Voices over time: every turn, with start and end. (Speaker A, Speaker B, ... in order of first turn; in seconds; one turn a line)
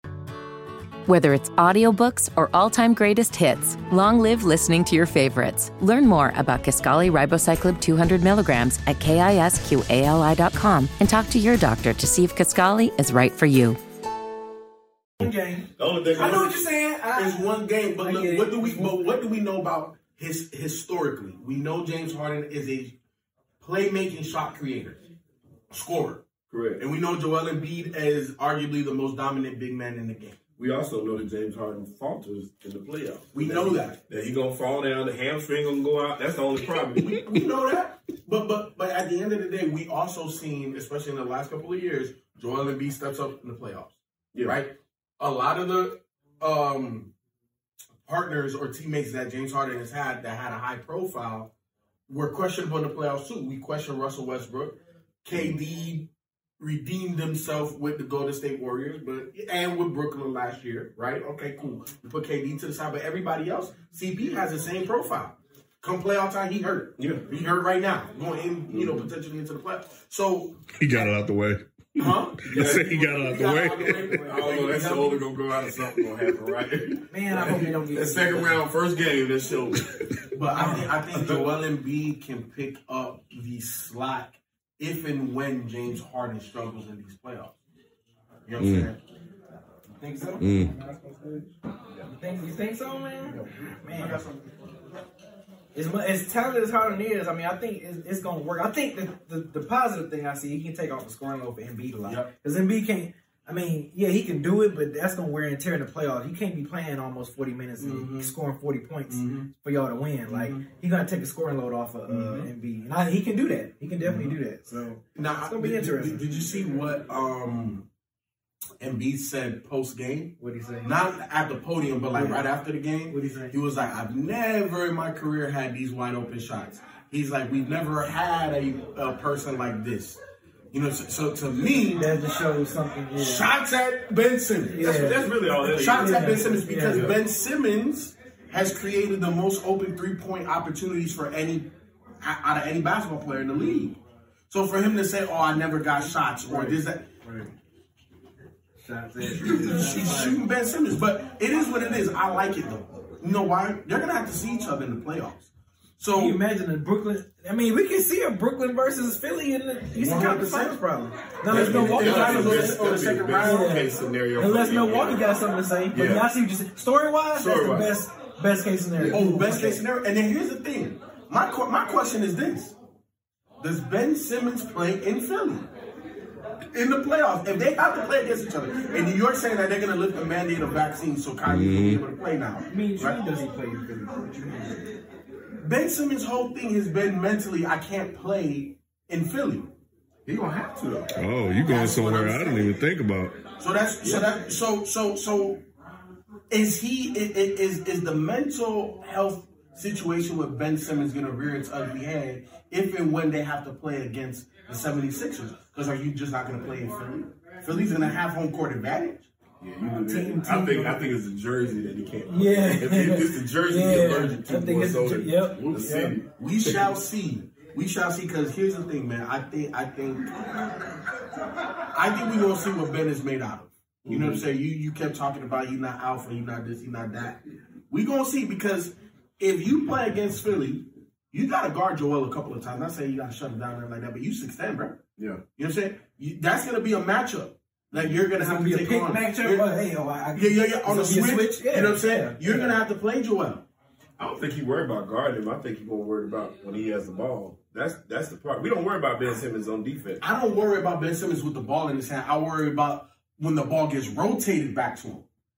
Speaker A: 1.1-13.8
Speaker B: 15.2-19.1
Speaker C: 15.8-16.5
Speaker D: 16.2-22.9
Speaker D: 23.6-25.0
Speaker D: 25.7-26.2
Speaker C: 26.5-26.8
Speaker D: 26.8-30.4
Speaker C: 30.6-37.3
Speaker D: 33.3-34.0
Speaker D: 37.0-47.1
Speaker D: 48.0-51.5
Speaker D: 52.1-70.7
Speaker C: 67.0-67.3
Speaker C: 68.7-69.1
Speaker E: 70.8-71.6
Speaker D: 72.0-75.2
Speaker E: 72.5-74.3
Speaker C: 72.5-73.0
Speaker B: 73.4-75.0
Speaker C: 74.1-79.8
Speaker B: 77.1-78.7
Speaker D: 80.3-87.5
Speaker B: 80.5-80.9
Speaker C: 80.6-81.4
Speaker D: 88.5-89.0
Speaker C: 88.6-88.9
Speaker B: 90.0-94.2
Speaker C: 90.4-90.7
Speaker D: 93.5-94.6
Speaker B: 95.7-116.3
Speaker D: 107.8-108.3
Speaker D: 109.1-109.5
Speaker D: 110.2-110.7
Speaker D: 112.1-112.5
Speaker D: 114.0-114.3
Speaker D: 115.2-117.8
Speaker D: 118.8-130.2
Speaker B: 120.4-120.9
Speaker B: 122.1-122.5
Speaker B: 123.1-123.5
Speaker D: 130.7-132.1
Speaker B: 131.9-133.5
Speaker D: 133.1-141.7
Speaker B: 134.7-135.3
Speaker C: 134.8-137.2
Speaker B: 135.9-137.1
Speaker D: 142.2-147.1
Speaker B: 146.1-147.5
Speaker B: 148.8-150.4
Speaker D: 149.2-156.4
Speaker B: 156.1-162.8
Speaker D: 159.9-160.8
Speaker D: 161.5-163.7
Speaker C: 161.5-165.3
Speaker B: 163.4-169.8
Speaker C: 165.9-166.3
Speaker C: 167.3-168.0
Speaker D: 169.0-172.8
Speaker D: 173.6-175.7
Speaker D: 176.7-183.2
Speaker C: 181.4-182.0
Speaker B: 182.7-184.8
Speaker D: 185.6-189.7
Speaker C: 190.2-191.2
Speaker E: 191.2-193.4
Speaker D: 191.6-192.8
Speaker D: 193.6-195.6
Speaker C: 194.0-194.3
Speaker D: 196.5-209.3
Speaker C: 209.6-216.9
Speaker B: 209.9-211.0
Speaker B: 212.3-216.2
Speaker D: 216.2-220.6
Speaker D: 221.9-235.0
Speaker C: 224.0-224.4
Speaker D: 235.5-239.7
Speaker B: 237.9-242.8
Speaker D: 240.3-243.7
Speaker C: 244.2-250.2
Speaker D: 250.2-255.2